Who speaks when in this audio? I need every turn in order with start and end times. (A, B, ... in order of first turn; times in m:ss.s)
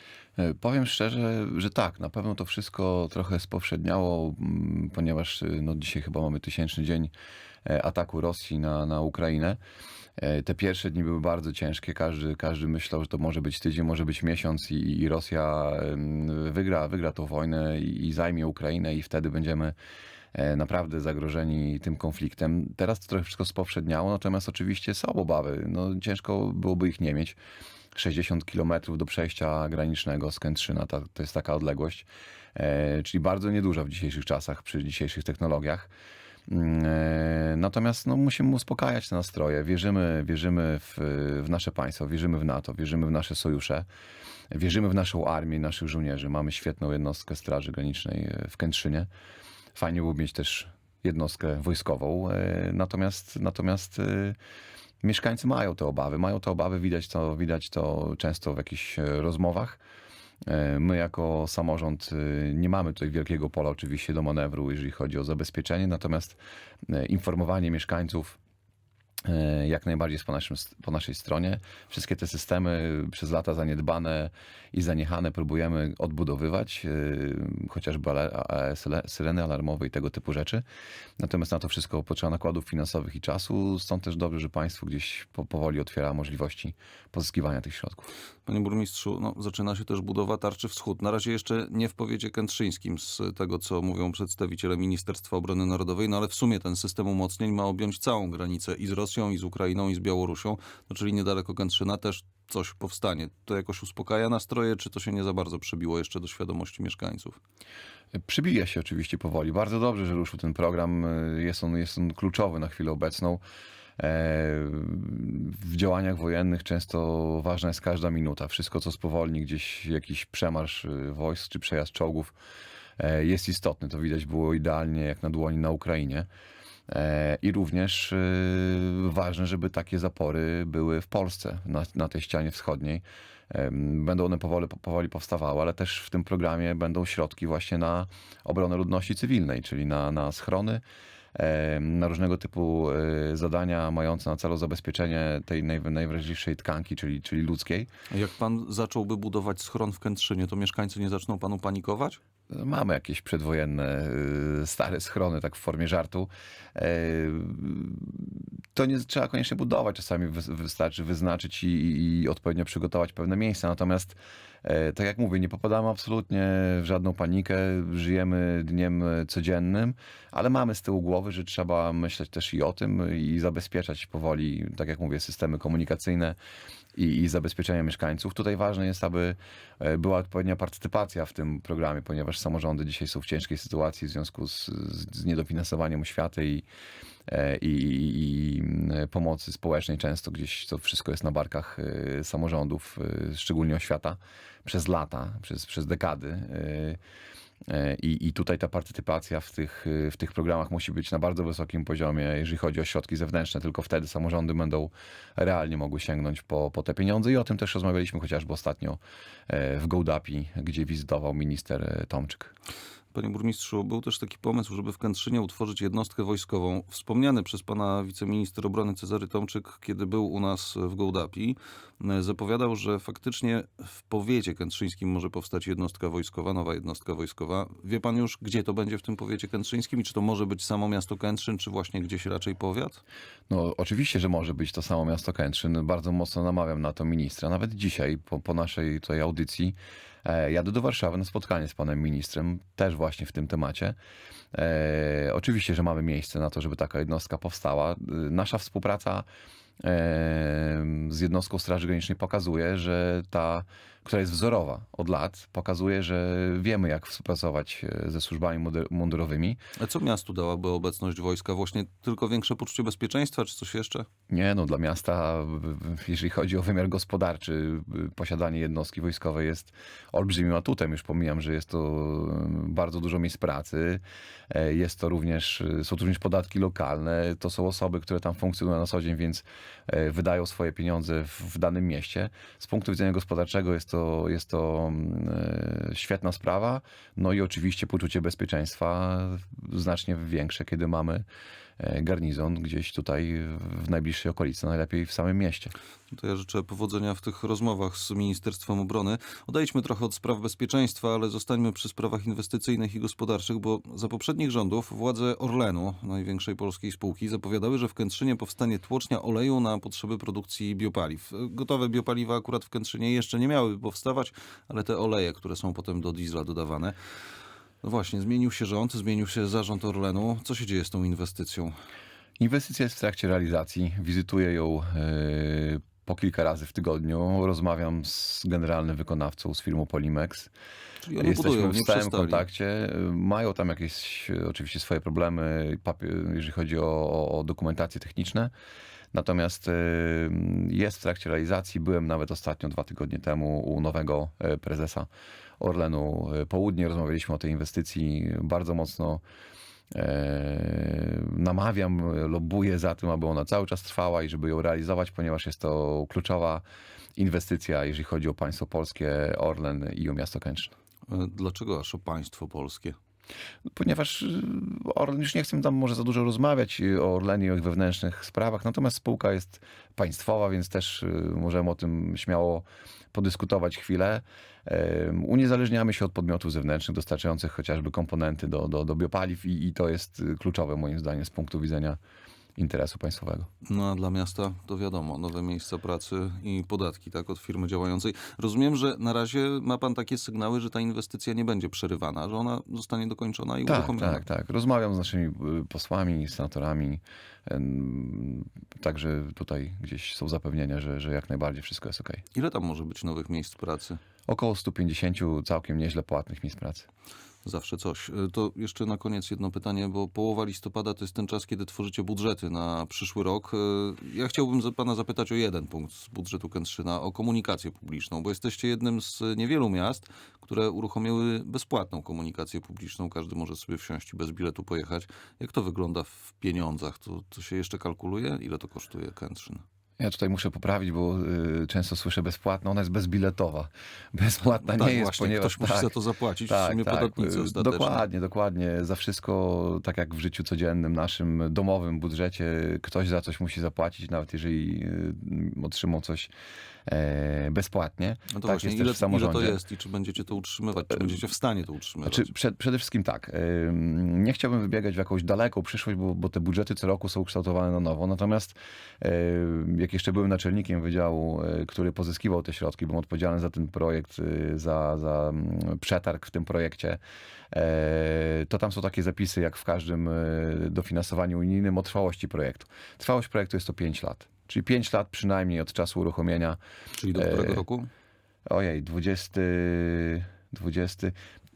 0:00.4-0:07.1 A
0:07.6-0:09.6 A
0:10.2-0:19.7 A
0:20.3-0:27.4 A
0:27.9-0:35.9 A
0:36.5-0:43.8 A
0:44.5-0:49.1 A
0:49.7-0:54.4 A
0:55.0-0:59.8 A
1:00.4-1:08.4 A
1:09.2-1:20.6 A
1:21.2-1:28.0 A
1:28.4-1:47.4 B
1:48.1-1:53.4 A
1:54.0-2:02.3 A
2:03.0-2:06.3 A
2:06.9-2:20.8 A
2:21.3-2:27.9 A
2:28.1-2:32.2 B
2:32.5-2:56.4 A
2:56.9-3:06.6 A
3:07.3-3:17.0 A
3:17.7-3:32.5 A
3:33.1-3:53.0 B
3:53.5-4:04.0 A
4:04.5-4:09.2 A
4:09.8-4:19.6 A
4:19.8-4:24.1 B
4:24.3-4:51.2 A
4:51.8-4:55.7 A
4:56.1-5:17.0 B
5:17.8-5:21.7 B
5:22.4-5:30.5 A
5:31.0-5:32.4 B
5:31.2-5:38.5 A
5:39.1-5:45.1 A
5:45.6-5:49.2 A
5:49.9-5:56.6 A
5:57.2-6:00.7 A
6:01.1-6:03.0 B
6:03.7-6:22.0 A
6:22.6-6:23.5 A
6:23.6-6:34.2 B
6:33.6-6:42.2 A
6:42.3-6:44.0 B
6:44.3-6:46.9 A
6:47.4-7:09.6 B
7:10.0-7:15.9 A
7:14.6-7:18.0 B
7:16.5-7:26.3 A
7:26.9-7:29.6 A
7:28.3-7:32.3 B
7:32.0-7:47.0 A
7:47.5-7:56.6 A
7:56.9-7:57.9 B
7:57.1-7:57.6 A
7:58.4-8:01.1 A